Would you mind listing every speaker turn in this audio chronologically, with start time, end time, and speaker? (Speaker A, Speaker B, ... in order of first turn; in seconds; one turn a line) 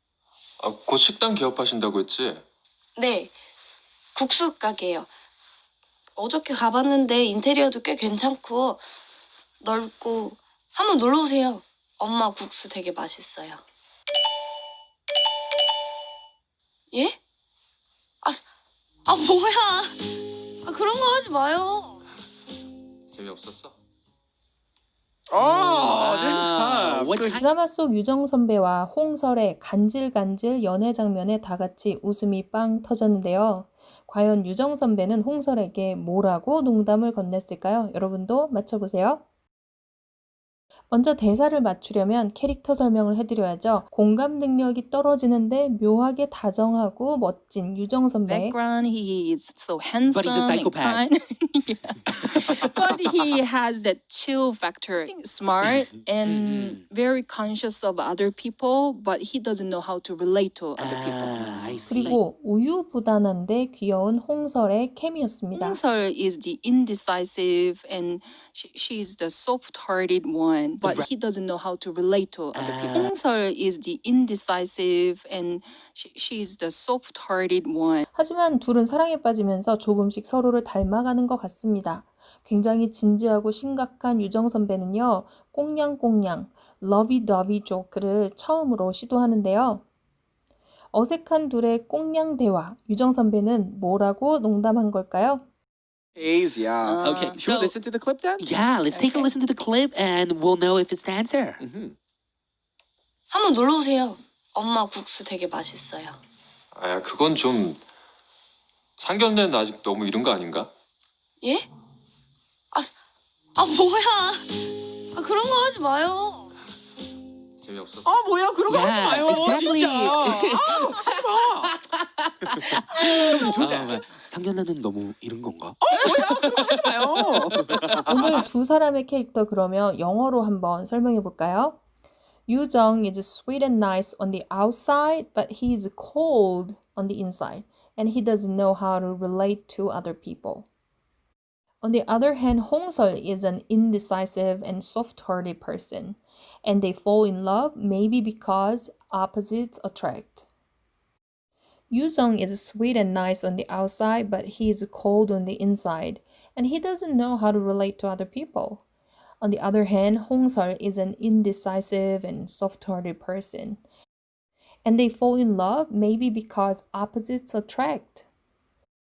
Speaker A: 0.6-2.4
Speaker B: 3.0-3.3
Speaker B: 4.1-5.1
Speaker B: 6.2-8.8
Speaker B: 9.6-13.6
Speaker B: 16.9-17.2
Speaker B: 19.1-22.0
Speaker A: 23.1-23.8
Speaker C: 25.3-27.4
Speaker D: 25.4-27.4
Speaker E: 27.3-39.2
Speaker E: 40.9-48.6
Speaker F: 48.2-62.2
Speaker D: 50.0-51.0
Speaker D: 56.2-56.8
Speaker D: 60.8-62.1
Speaker E: 61.9-65.8
Speaker F: 65.5-78.0
Speaker D: 70.8-71.1
Speaker D: 72.5-73.1
Speaker E: 78.1-89.8
Speaker E: 90.9-95.4
Speaker C: 96.2-98.4
Speaker F: 96.8-97.5
Speaker D: 97.0-97.8
Speaker D: 98.4-101.6
Speaker F: 98.9-99.3
Speaker C: 101.6-102.0
Speaker B: 103.3-106.2
Speaker A: 106.7-107.8
Speaker A: 109.0-110.7
Speaker B: 111.4-111.7
Speaker B: 113.5-116.5
Speaker A: 117.6-118.2
Speaker C: 118.0-121.8
Speaker D: 118.7-121.7
Speaker D: 122.4-128.4
Speaker C: 123.1-124.0
Speaker C: 125.8-128.3
Speaker E: 128.1-131.8
Speaker E: 132.5-140.7
Speaker E: 141.8-150.4
Speaker E: 151.9-158.8
Speaker E: 159.4-163.8
Speaker E: 164.8-168.2